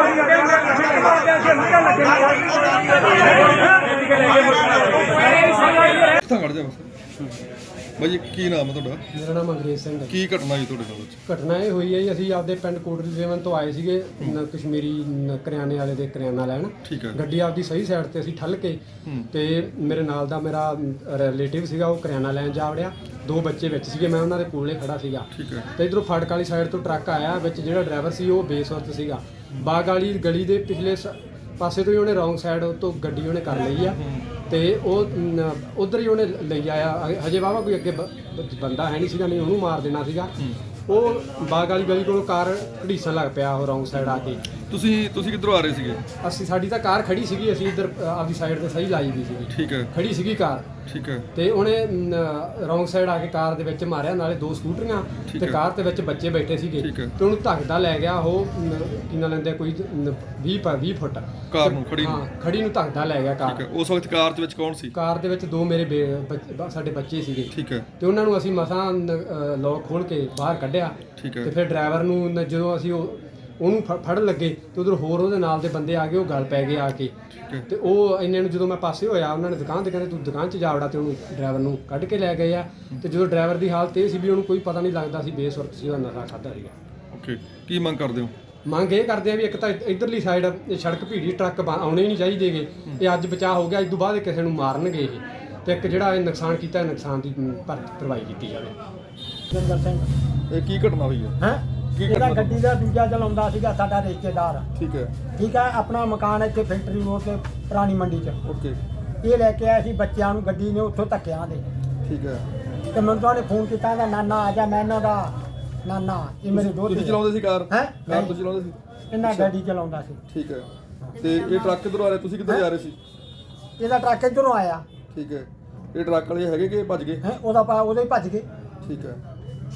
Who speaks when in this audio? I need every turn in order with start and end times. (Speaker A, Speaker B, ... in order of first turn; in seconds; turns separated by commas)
Speaker A: 0.4-0.7, Speaker B: 5.9-6.9, Speaker B: 8.0-9.1, Speaker A: 9.1-10.1, Speaker B: 10.1-11.2, Speaker A: 11.3-40.3, Speaker B: 16.8-17.2, Speaker B: 19.1-19.3, Speaker B: 25.3-25.7, Speaker B: 34.0-34.3, Speaker A: 40.9-44.5, Speaker B: 44.0-46.0, Speaker A: 46.2-50.7, Speaker B: 49.5-49.9, Speaker B: 50.9-51.3, Speaker A: 51.3-63.6, Speaker B: 55.3-55.6, Speaker B: 56.8-57.2, Speaker B: 61.5-62.2, Speaker B: 63.5-64.9, Speaker A: 64.9-77.1, Speaker B: 67.5-67.9, Speaker B: 71.2-71.5, Speaker A: 77.7-86.7, Speaker B: 87.1-88.3, Speaker A: 88.7-98.8, Speaker C: 99.5-100.1, Speaker B: 100.5-101.4, Speaker C: 101.4-104.7, Speaker B: 102.0-102.6, Speaker B: 104.8-105.1, Speaker C: 105.4-108.4, Speaker B: 108.4-108.8, Speaker C: 109.2-111.7, Speaker B: 112.0-112.5, Speaker C: 112.9-118.3, Speaker B: 116.5-119.5, Speaker C: 119.1-120.2, Speaker B: 120.3-123.0, Speaker C: 123.8-124.8, Speaker B: 125.1-127.2, Speaker C: 127.2-128.5, Speaker B: 128.8-129.2